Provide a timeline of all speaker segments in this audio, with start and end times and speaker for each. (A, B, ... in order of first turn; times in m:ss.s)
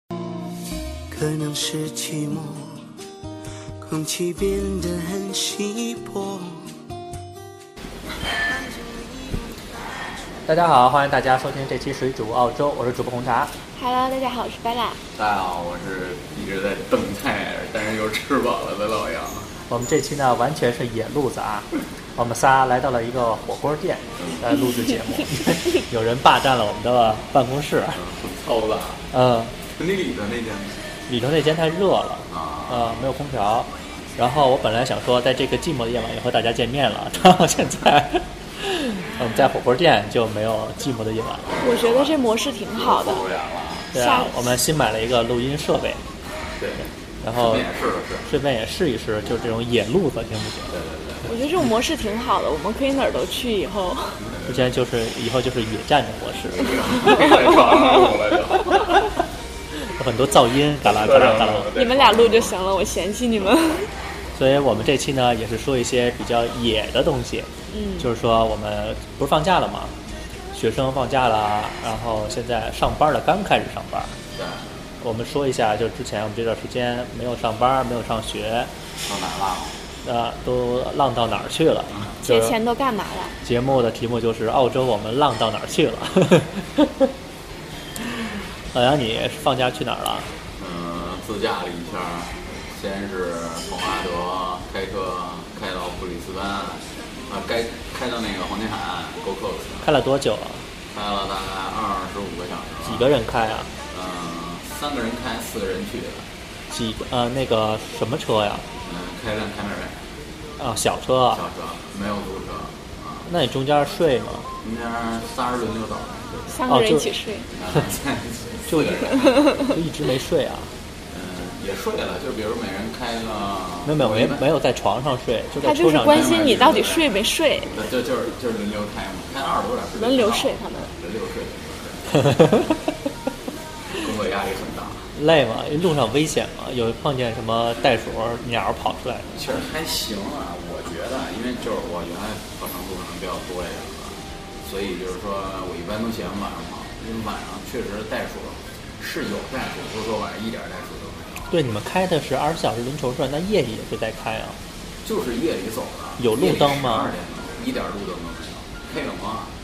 0:01.1-0:02.9 A
0:03.8-0:06.7 A
0:10.5-0:13.5 B
0:13.8-0:15.0 C
0:15.2-0:19.5 D
0:19.7-0:28.0 B
0:28.0-0:29.1 D
0:29.1-0:29.6 B
0:29.7-0:30.9 D
0:31.1-0:41.6 B
0:32.3-0:33.1 D
0:41.6-0:43.2 C
0:41.6-0:42.2 D
0:42.7-0:43.9 D
0:43.9-0:44.4 C
0:43.9-0:46.0 B
0:46.6-0:48.3 D
0:47.2-0:47.7 B
0:48.3-0:50.7 B
0:50.7-0:51.4 D
0:51.3-0:54.2 C
0:54.2-0:54.8 D
0:54.5-0:56.7 B
0:56.4-0:59.2 D
0:59.9-1:01.7 B
1:00.8-1:02.6 D
1:01.7-1:03.9 C
1:04.4-1:09.9 B
1:07.7-1:08.1 C
1:10.5-1:14.1 B
1:14.4-1:14.8 D
1:15.0-1:18.7 B
1:19.0-1:19.8 D
1:20.0-1:22.6 B
1:22.2-1:23.4 C
1:23.4-1:27.1 B
1:28.7-1:30.3 B
1:30.6-1:39.9 D
1:39.8-1:40.7 B
1:40.9-1:43.2 D
1:42.8-1:43.7 B
1:43.9-1:46.3 D
1:46.7-1:48.6 B
1:48.8-1:50.0 D
1:50.6-1:51.4 B
1:51.3-1:53.3 D
1:53.3-1:54.5 B
1:54.6-1:56.6 D
1:56.5-1:57.5 C
1:56.7-1:57.1 B
1:57.5-1:59.8 D
1:58.7-2:00.7 B
2:01.1-2:04.4 D
2:03.9-2:06.6 B
2:05.6-2:07.7 C
2:06.0-2:12.8 D
2:10.0-2:10.9 C
2:13.9-2:15.1 D
2:15.2-2:19.4 B
2:19.4-2:31.6 D
2:31.5-2:34.6 B
2:35.0-2:39.5 D
2:36.2-2:37.1 B